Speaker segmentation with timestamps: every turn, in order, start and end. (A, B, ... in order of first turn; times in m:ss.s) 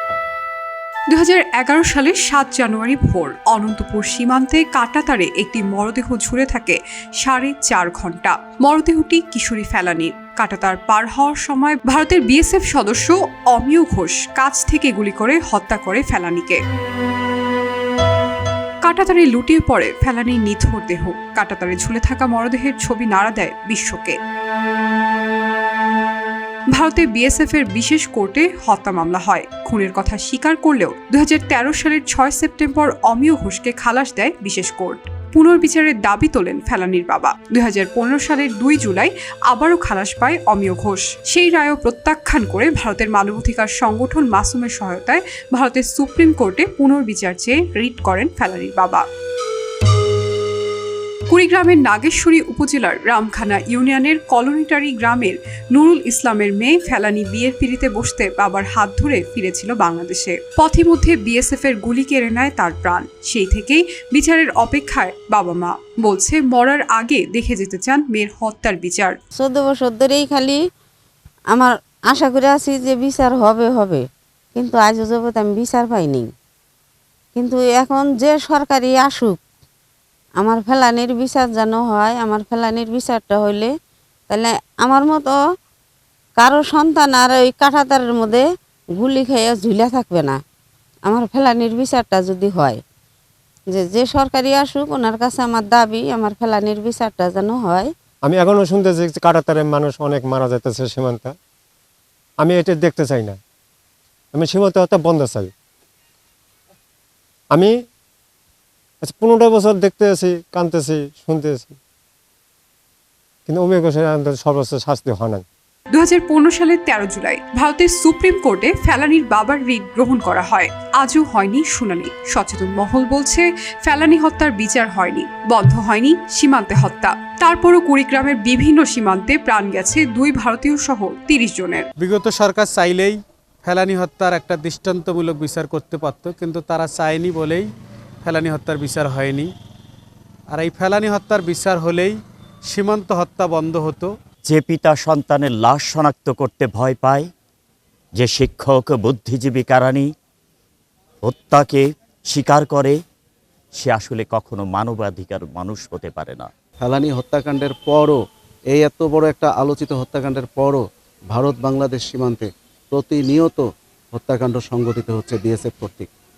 0:01.1-0:16.6 A
0:18.8-0:24.2 A
0:26.7-0:49.0 A
0:51.3-1:09.2 A
1:09.4-1:10.6 B
1:11.5-1:14.0 B
1:14.6-1:16.3 B
1:17.4-1:19.4 B
1:20.4-1:23.7 B
1:24.3-1:25.4 B
1:26.4-1:28.4 B
1:29.0-1:30.4 B
1:31.1-1:32.8 B
1:33.7-1:37.9 B
1:38.3-1:41.3 C
1:42.4-1:43.4 C
1:44.3-1:45.5 C
1:49.0-1:51.8 C
1:53.5-1:55.4 C
1:55.9-2:11.9 A
2:12.0-2:17.7 D
2:18.2-2:19.5 D
2:20.5-2:24.1 D
2:24.4-2:27.3 E
2:28.2-2:30.1 E
2:31.2-2:33.0 E
2:33.8-2:36.5 E
2:36.8-2:38.2 F
2:38.7-2:40.8 F
2:41.3-2:46.1 F